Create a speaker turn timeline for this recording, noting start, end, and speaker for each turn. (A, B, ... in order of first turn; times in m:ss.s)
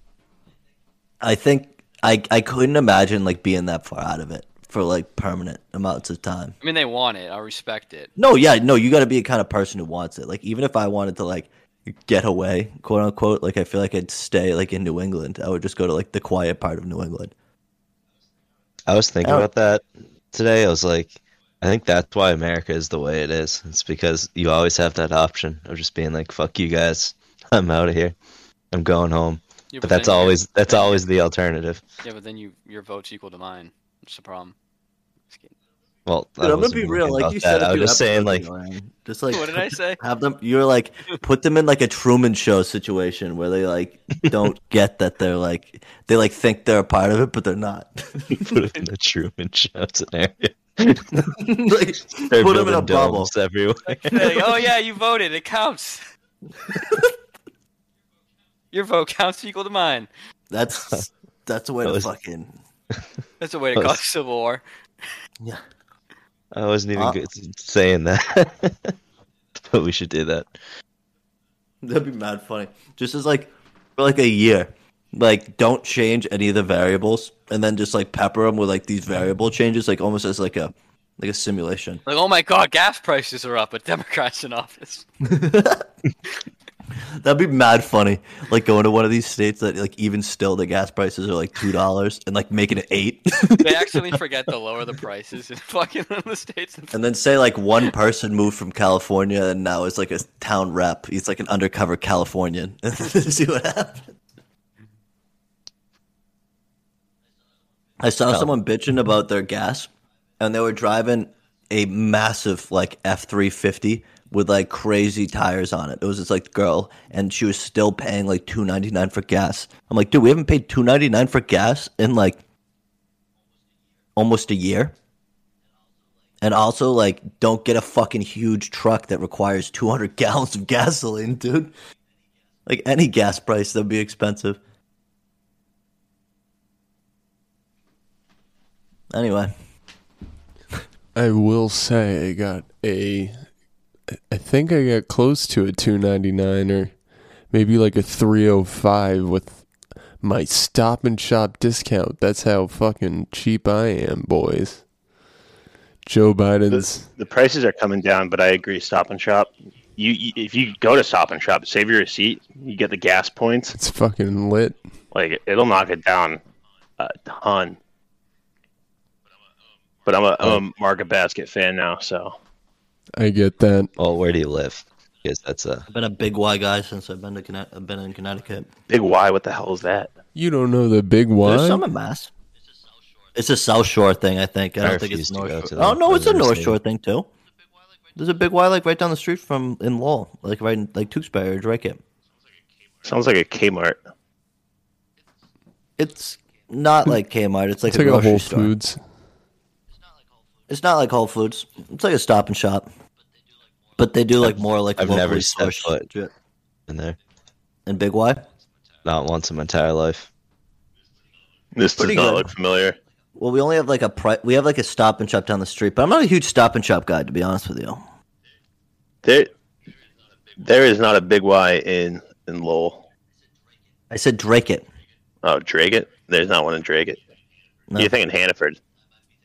0:01.2-0:06.6 A
0:06.6-0:08.1 B
0:08.2-0:17.3 A
0:18.9-0:28.2 C
0:28.7-0:31.8 C
0:29.7-0:31.0 B
0:32.0-0:34.5 B
0:35.3-0:35.5 B
0:36.0-0:38.5 C
0:36.4-0:48.5 A
0:39.3-0:40.0 B
0:48.3-0:51.2 C
0:51.3-0:53.3 A
0:52.3-0:54.5 C
0:53.9-0:56.0 B
0:56.7-0:57.1 A
0:58.7-1:00.1 B
1:00.5-1:02.6 A
1:01.8-1:02.1 C
1:03.4-1:04.6 B
1:03.7-1:04.0 C
1:06.5-1:08.9 C
1:09.6-1:10.6 C
1:11.8-1:22.0 A
1:22.0-1:25.0 B
1:25.2-1:25.9 A
1:27.0-1:33.9 A
1:33.5-1:37.0 B
1:36.9-1:44.1 A
1:48.0-1:49.9 A
1:50.4-2:02.4 A
2:04.2-2:04.9 A
2:06.4-2:11.7 A
2:12.6-2:14.6 A
2:19.1-2:19.5 A
2:21.1-2:23.6 D
2:24.3-2:34.9 D
2:36.0-2:37.1 D
2:36.7-2:43.8 E
2:43.8-2:44.9 D
2:45.1-2:46.4 E
2:47.0-2:47.8 E
2:50.0-2:52.4 E
2:53.2-2:53.9 D
2:54.0-2:55.8 C
2:55.9-2:58.7 A
2:58.9-3:00.1 E
3:00.3-3:01.8 D
3:01.4-3:02.3 A
3:03.3-3:07.3 A
3:04.8-3:06.8 C
3:08.2-3:12.0 A
3:13.0-3:14.0 E
3:16.0-3:18.7 A
3:17.9-3:19.1 D
3:20.7-3:22.9 A
3:24.0-3:26.3 A
3:24.4-3:26.1 C
3:26.9-3:27.2 C
3:27.8-3:28.4 A
3:29.0-3:30.3 C
3:31.8-3:33.0 E
3:31.9-3:32.5 A
3:33.4-3:38.0 A
3:39.2-3:39.5 E
3:40.6-3:43.0 E
3:44.1-3:44.8 A
3:45.4-3:47.2 E
3:48.0-3:48.8 E